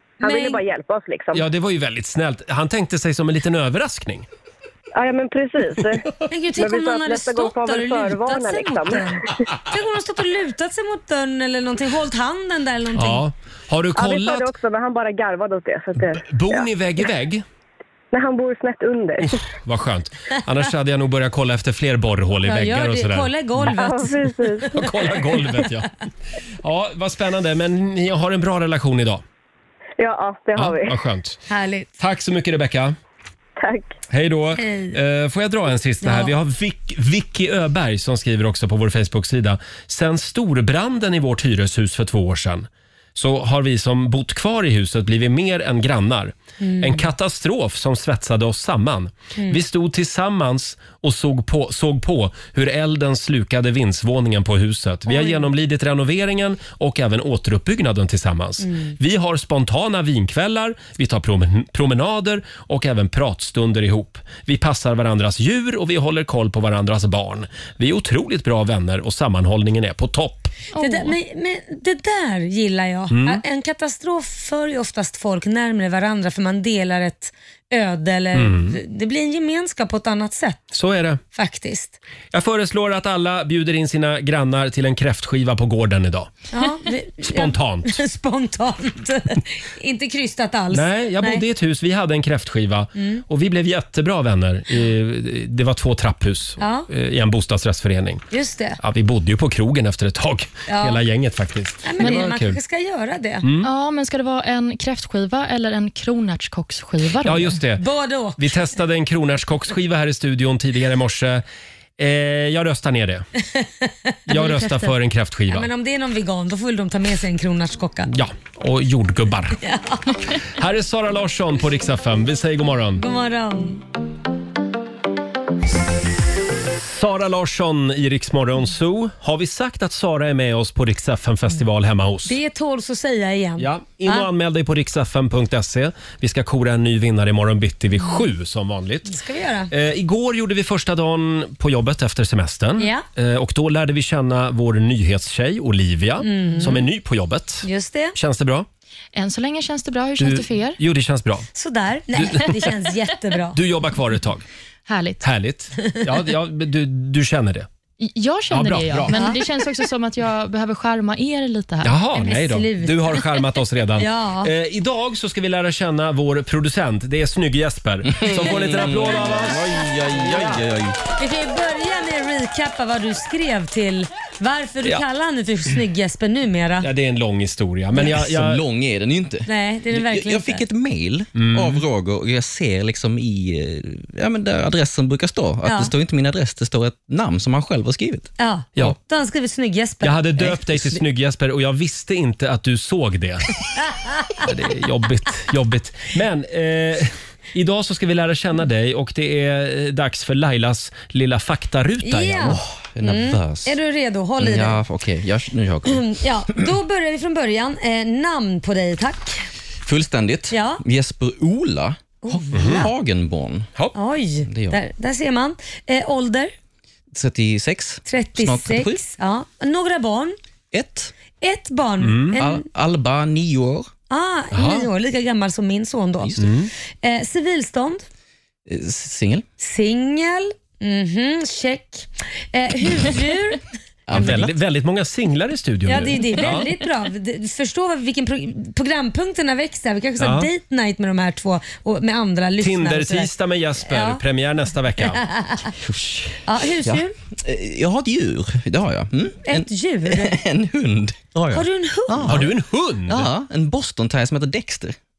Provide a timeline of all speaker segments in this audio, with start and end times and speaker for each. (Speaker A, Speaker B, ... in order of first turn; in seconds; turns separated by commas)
Speaker A: 0.2-0.6, Speaker B: 0.2-1.4, Speaker C: 1.3-4.3, Speaker B: 5.0-6.0, Speaker A: 6.3-13.2, Speaker B: 6.6-9.3, Speaker C: 12.9-14.5, Speaker B: 13.9-16.6, Speaker C: 15.9-17.4, Speaker B: 18.1-19.3, Speaker C: 19.2-23.7, Speaker A: 22.4-25.7, Speaker B: 23.7-24.7, Speaker C: 24.7-25.9, Speaker C: 26.6-29.2, Speaker B: 30.0-31.0, Speaker C: 30.6-31.4, Speaker A: 31.5-31.9, Speaker C: 32.0-33.0, Speaker B: 33.6-33.9, Speaker C: 34.1-70.5, Speaker A: 34.6-35.0, Speaker A: 36.0-36.3, Speaker A: 46.6-47.1, Speaker A: 55.1-55.5, Speaker A: 58.6-58.9, Speaker D: 70.7-71.1, Speaker A: 70.8-80.6, Speaker C: 73.1-73.4, Speaker C: 78.3-78.8, Speaker C: 80.7-81.2, Speaker A: 81.3-82.0, Speaker C: 82.3-86.3, Speaker A: 86.5-91.4, Speaker C: 87.2-88.0, Speaker C: 90.7-98.2, Speaker A: 93.0-93.2, Speaker A: 96.6-96.9, Speaker A: 98.3-98.8, Speaker C: 98.8-102.6, Speaker A: 100.7-101.0, Speaker A: 101.8-103.5, Speaker D: 102.0-102.3, Speaker C: 103.4-103.7, Speaker D: 103.6-107.6, Speaker C: 107.2-111.4, Speaker A: 107.8-108.4, Speaker C: 112.0-113.2, Speaker A: 113.5-114.9, Speaker C: 114.3-115.7, Speaker A: 115.5-118.1, Speaker C: 118.1-119.6, Speaker A: 119.6-120.2, Speaker C: 120.5-123.0, Speaker A: 123.0-123.8, Speaker C: 126.8-132.4, Speaker A: 132.2-134.3, Speaker C: 133.6-139.1, Speaker A: 139.1-139.7, Speaker C: 139.7-148.7, Speaker A: 142.8-143.0, Speaker A: 146.2-146.8, Speaker A: 147.6-148.2, Speaker D: 149.1-150.8, Speaker C: 150.2-151.5, Speaker A: 151.5-153.6, Speaker C: 152.1-152.7, Speaker C: 153.5-154.4, Speaker D: 154.9-155.2, Speaker C: 155.2-157.7, Speaker D: 158.0-162.0, Speaker C: 158.5-159.1, Speaker A: 159.1-159.4, Speaker C: 161.8-170.6, Speaker A: 162.2-163.4, Speaker A: 164.0-164.5, Speaker E: 168.1-171.0, Speaker A: 168.6-168.9, Speaker A: 171.2-176.9, Speaker C: 176.8-178.6, Speaker E: 177.9-188.3, Speaker A: 179.4-180.7, Speaker C: 181.3-181.8, Speaker A: 185.6-185.9, Speaker A: 188.4-190.3, Speaker C: 190.0-193.5, Speaker E: 190.4-191.0, Speaker A: 193.9-194.4, Speaker C: 194.4-202.6, Speaker A: 202.0-204.8, Speaker E: 202.5-203.8, Speaker E: 204.4-206.6, Speaker A: 205.8-209.4, Speaker E: 209.8-213.7, Speaker A: 210.5-210.8, Speaker A: 212.2-212.9, Speaker C: 212.5-212.8, Speaker A: 213.9-216.5, Speaker E: 214.4-214.8, Speaker E: 217.1-219.0, Speaker A: 218.0-220.3, Speaker E: 220.7-221.1, Speaker A: 221.4-222.6, Speaker C: 222.0-222.4, Speaker E: 222.4-223.9, Speaker A: 224.1-228.0, Speaker C: 224.5-224.9, Speaker E: 226.2-226.5, Speaker C: 226.4-226.7, Speaker E: 228.7-229.4, Speaker A: 229.6-233.6, Speaker E: 234.1-234.5, Speaker C: 234.1-236.7, Speaker A: 234.2-234.5, Speaker A: 235.8-243.3, Speaker C: 240.2-240.5, Speaker C: 242.6-245.2, Speaker A: 243.8-244.2, Speaker A: 245.1-245.7, Speaker E: 245.8-254.9, Speaker A: 246.4-247.1, Speaker A: 249.4-250.3, Speaker A: 251.5-252.5, Speaker C: 252.3-253.2